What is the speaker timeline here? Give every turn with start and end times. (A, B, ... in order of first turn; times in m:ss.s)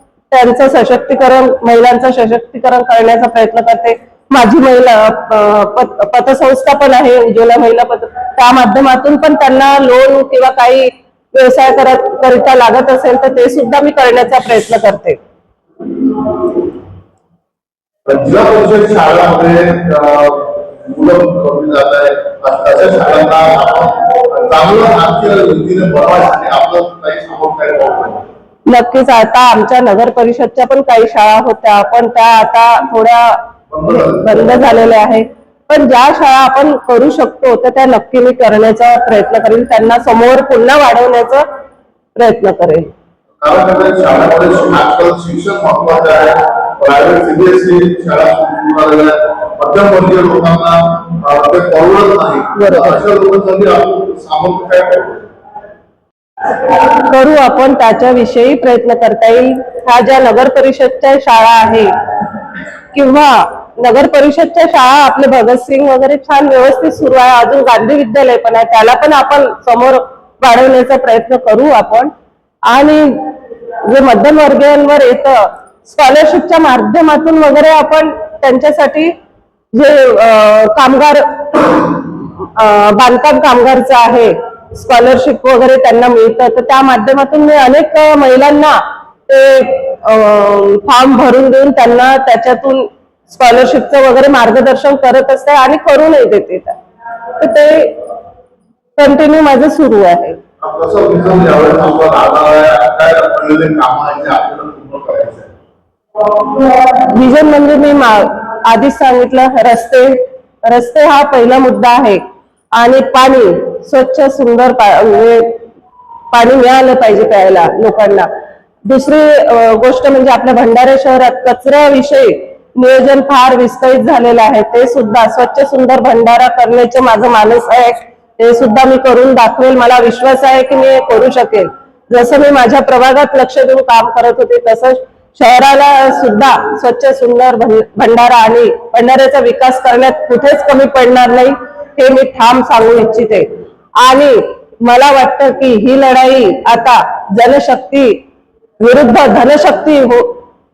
0:00.3-0:15.2 A
0:18.0-0:28.2 B
0:28.7-0:41.4 A
0:33.7-0:34.2 B
0:42.2-0:42.9 A
0:43.4-0:55.2 B
0:52.5-0:53.0 A
0:56.6-1:01.9 A
1:02.9-1:12.1 A
1:12.7-1:19.1 A
1:19.7-1:36.8 A
1:37.4-1:38.0 A
1:39.0-1:40.4 A
1:40.6-1:45.5 B
1:46.6-1:52.2 A
1:52.7-1:55.6 A
1:56.3-1:58.3 A
1:58.8-2:28.2 A
2:28.8-2:30.4 A